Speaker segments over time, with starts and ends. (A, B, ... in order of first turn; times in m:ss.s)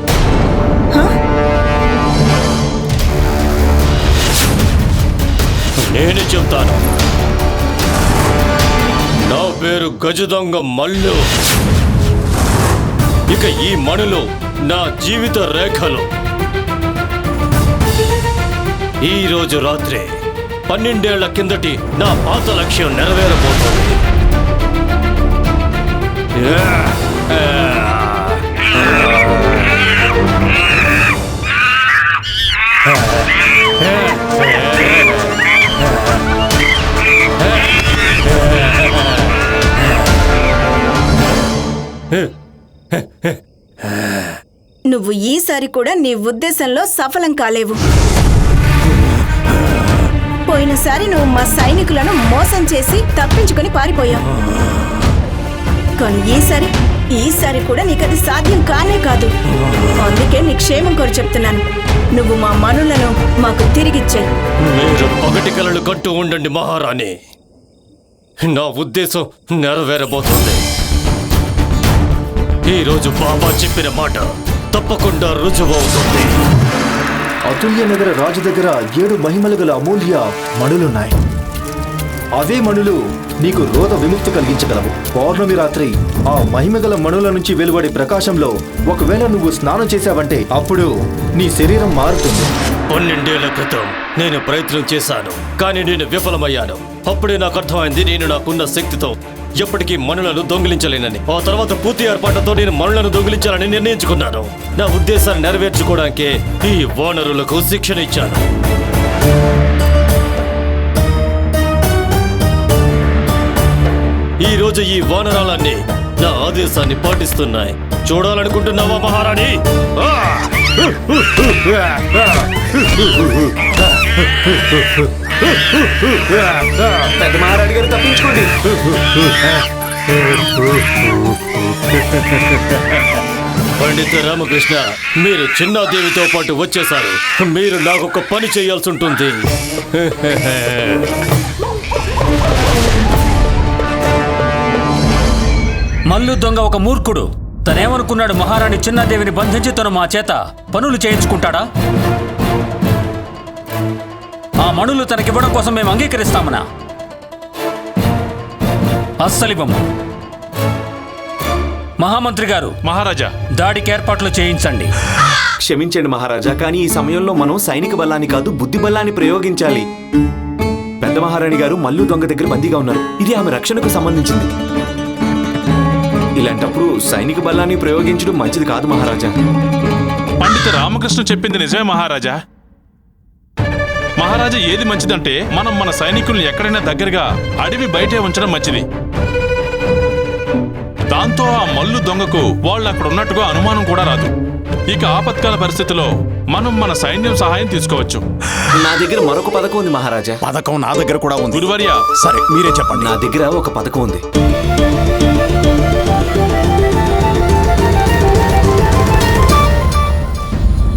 0:05.8-0:06.8 A
0:09.2-0:11.3 A
0:13.3-0:16.1 A
0:19.0-0:20.1 A
0:20.7-0:24.0 A
0:26.4-0:28.4 A
0:42.9-0:43.4 A
0:44.9-0:47.8 B
0:50.5-0:54.2 B
0:56.0-0:59.3 B
1:00.0-1:01.6 B
1:02.1-1:04.3 B
1:04.7-1:07.2 A
1:08.4-1:10.6 A
1:12.7-1:16.3 A
1:17.5-1:21.1 C
1:22.4-1:32.5 C
1:32.9-1:48.4 A
1:54.4-2:07.1 A
2:07.2-2:08.5 D
2:08.8-2:09.6 A
2:10.6-2:13.0 A
2:13.8-2:21.1 A
2:26.1-2:31.6 E
2:34.6-2:36.6 E
2:39.2-2:39.8 E
2:42.0-2:42.8 E
2:42.8-2:43.3 F
2:43.6-2:44.9 E
2:45.6-2:49.8 D
2:51.0-2:54.5 D
2:56.4-2:59.3 D
3:00.4-3:02.4 F
3:04.2-3:08.8 F
3:11.1-3:14.3 F
3:14.9-3:18.2 F
3:18.8-3:20.4 D
3:20.4-3:21.6 G
3:21.5-3:22.1 F
3:22.2-3:23.1 G
3:22.9-3:24.2 D